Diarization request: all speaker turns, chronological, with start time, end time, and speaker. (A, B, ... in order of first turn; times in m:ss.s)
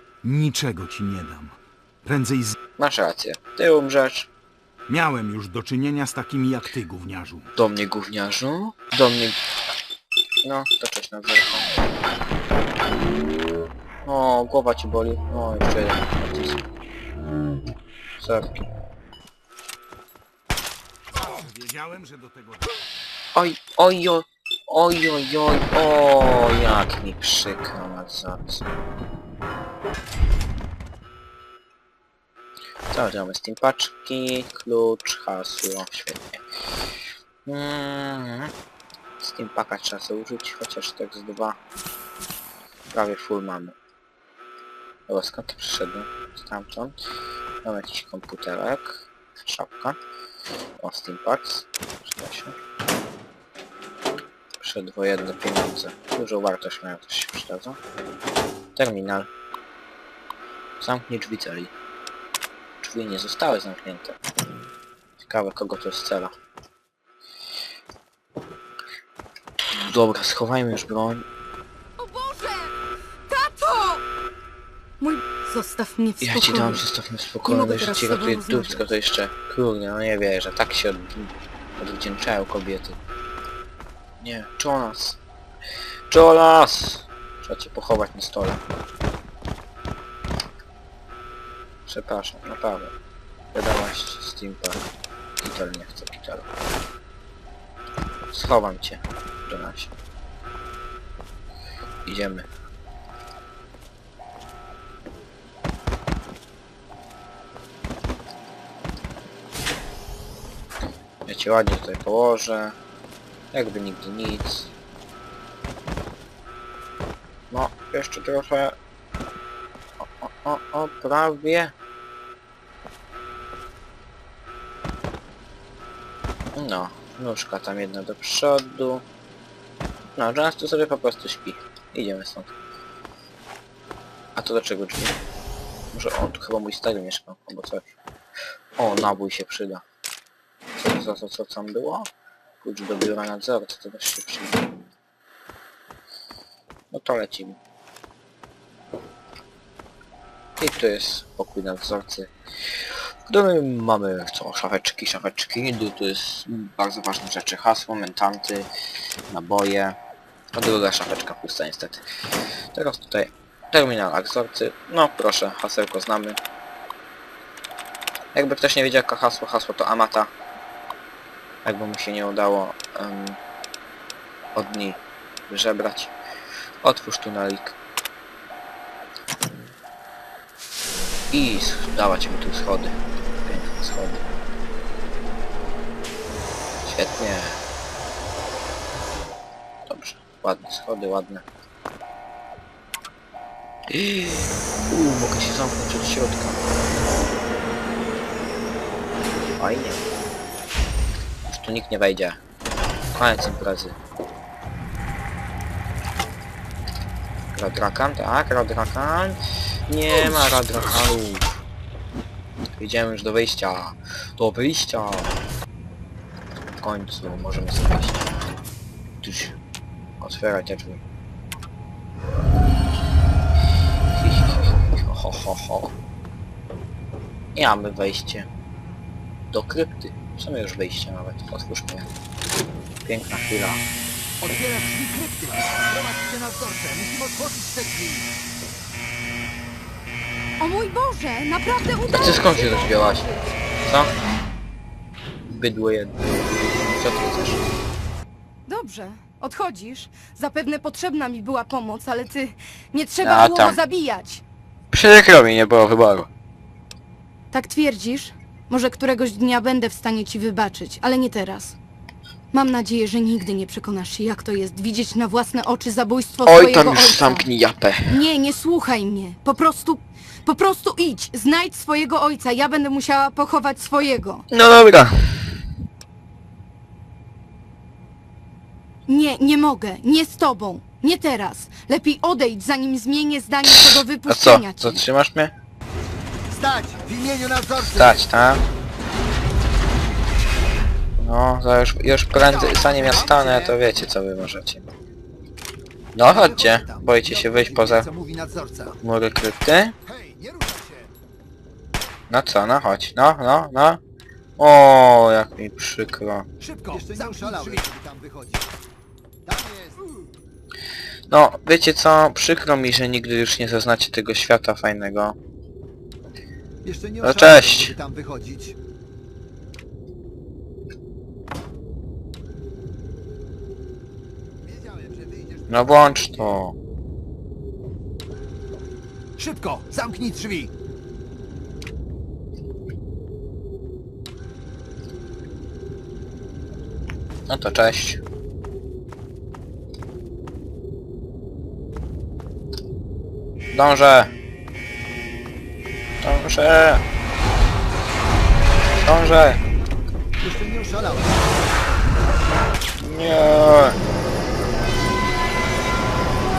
0:00.2-0:02.6 A
0:02.8-0:04.3 B
0:04.9-0:07.5 A
0:07.6-0:09.4 B
0:10.4-0:11.7 B
0:14.0-0:16.6 B
0:18.2-0:18.6 B
0:21.2-0:22.7 A
0:23.3-0:28.7 B
0:32.9-0:36.4 B
0:37.5-0:38.5 B
0:39.2-0:41.6 B
0:42.9-0:43.8 B
0:45.1-0:47.0 B
0:47.6-0:50.0 B
0:50.8-0:52.6 B
0:54.6-0:57.8 B
0:58.8-0:59.3 B
1:00.8-1:01.7 B
1:02.8-1:04.2 B
1:05.3-1:06.3 B
1:09.7-1:11.2 B
1:12.0-1:14.0 C
1:15.0-1:16.8 C
1:16.2-1:23.0 B
1:17.4-1:18.9 C
1:24.2-1:25.2 B
1:26.1-1:28.6 B
1:31.9-1:32.9 B
1:33.5-1:34.9 B
1:35.4-1:36.5 B
1:38.3-1:39.9 B
1:42.1-1:42.5 B
1:51.3-1:52.8 B
1:53.5-1:54.7 B
1:57.5-1:58.8 B
2:00.2-2:01.7 B
2:06.6-2:09.0 B
2:10.2-2:12.5 B
2:14.4-2:15.2 B
2:15.9-2:17.8 B
2:18.8-2:19.8 B
2:20.8-2:22.1 B
2:22.6-2:24.9 B
2:26.9-2:27.6 B
2:30.6-2:32.3 B
2:33.3-2:38.7 B
2:39.3-2:40.0 B
2:40.6-2:42.0 B
2:42.7-2:46.4 B
2:48.3-2:50.3 B
2:51.6-2:53.4 B
2:54.6-2:56.1 B
2:56.8-2:57.8 B
3:01.3-3:04.2 B
3:06.9-3:07.6 B
3:09.9-3:11.4 B
3:13.9-3:16.7 B
3:19.6-3:20.1 B
3:21.5-3:22.4 B
3:23.1-3:24.0 B
3:27.5-3:31.6 B
3:32.8-3:35.4 B
3:36.8-3:38.4 B
3:39.2-3:39.6 B
3:40.2-3:41.0 B
3:44.2-3:45.9 B
3:47.6-3:48.5 B
3:49.5-3:52.1 B
3:53.0-3:53.8 B
3:54.4-3:58.3 D
4:00.6-4:03.6 C
4:02.1-4:03.2 B
4:03.8-4:04.1 B
4:05.5-4:07.6 B
4:08.7-4:14.4 C
4:13.2-4:13.8 B
4:14.9-4:16.3 B
4:17.5-4:21.8 C
4:22.5-4:27.5 C
4:26.5-4:28.2 B
4:28.0-4:34.4 C
4:34.5-4:35.6 B
4:39.1-4:45.0 C
4:43.6-4:45.5 B
4:46.5-4:48.2 D
4:47.8-4:48.6 B
4:51.2-4:54.9 B
4:52.4-4:53.8 D
4:56.2-4:58.1 B
4:56.2-4:59.0 D
4:59.0-4:59.9 B
5:00.0-5:01.1 D
5:02.3-5:04.0 B
5:04.6-5:06.5 B
5:06.6-5:08.8 D
5:06.9-5:07.8 A
5:09.5-5:10.0 D
5:11.3-5:15.4 B
5:16.8-5:18.8 D
5:17.2-5:18.0 B
5:24.6-5:26.6 D
5:25.7-5:26.8 B
5:29.4-5:30.7 D
5:37.5-5:38.2 B
5:43.7-5:44.3 B
5:46.2-5:47.0 B
5:49.0-5:49.6 B
5:50.4-5:51.4 D
5:53.0-5:54.0 B